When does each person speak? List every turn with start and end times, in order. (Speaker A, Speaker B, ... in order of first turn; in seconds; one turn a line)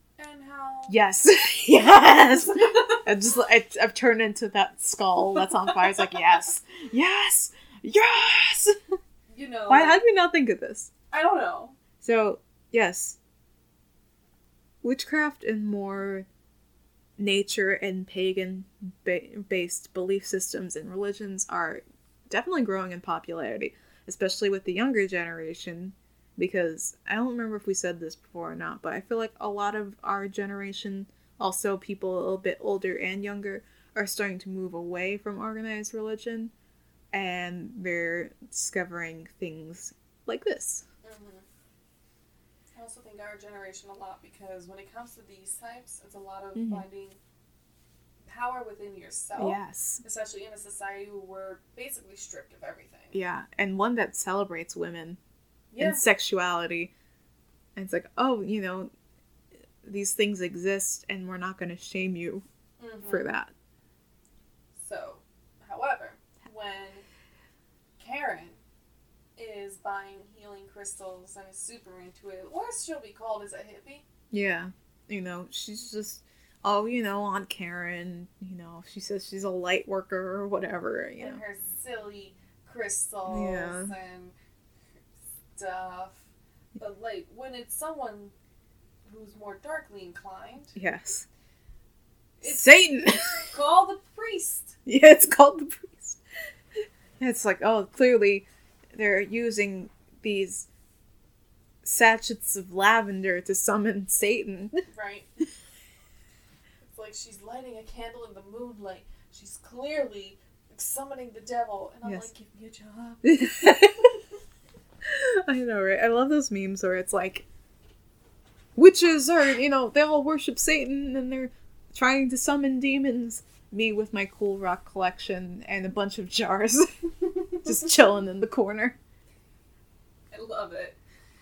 Speaker A: 0.2-1.0
Speaker B: 0.9-8.8
Speaker A: 2.5-3.0
Speaker A: 9.3-10.0
Speaker B: 9.7-10.9
Speaker A: 11.1-11.8
Speaker B: 12.0-13.2
Speaker B: 14.8-16.3
Speaker B: 17.2-36.5
Speaker B: 37.1-40.8
Speaker A: 41.0-41.5
Speaker A: 42.8-47.2
Speaker B: 46.6-46.9
Speaker A: 48.3-53.2
Speaker B: 49.4-50.0
Speaker B: 53.1-55.2
Speaker A: 55.7-56.0
Speaker B: 55.8-56.9
Speaker B: 57.8-58.9
Speaker B: 59.8-62.5
Speaker A: 62.8-63.3
Speaker B: 63.0-63.5
Speaker A: 64.8-67.0
Speaker A: 68.0-68.6
Speaker A: 69.4-74.0
Speaker B: 74.3-81.4
Speaker A: 81.2-84.3
Speaker B: 83.3-83.9
Speaker A: 85.5-86.3
Speaker A: 86.8-88.3
Speaker A: 89.1-90.8
Speaker B: 90.8-91.3
Speaker A: 92.4-94.8
Speaker B: 92.4-93.5
Speaker B: 94.9-96.2
Speaker B: 97.2-100.7
Speaker B: 101.8-104.8
Speaker A: 104.9-105.3
Speaker A: 106.9-113.3
Speaker B: 113.2-114.1
Speaker B: 115.0-117.5
Speaker B: 118.8-126.9
Speaker B: 127.6-129.0
Speaker A: 130.3-131.0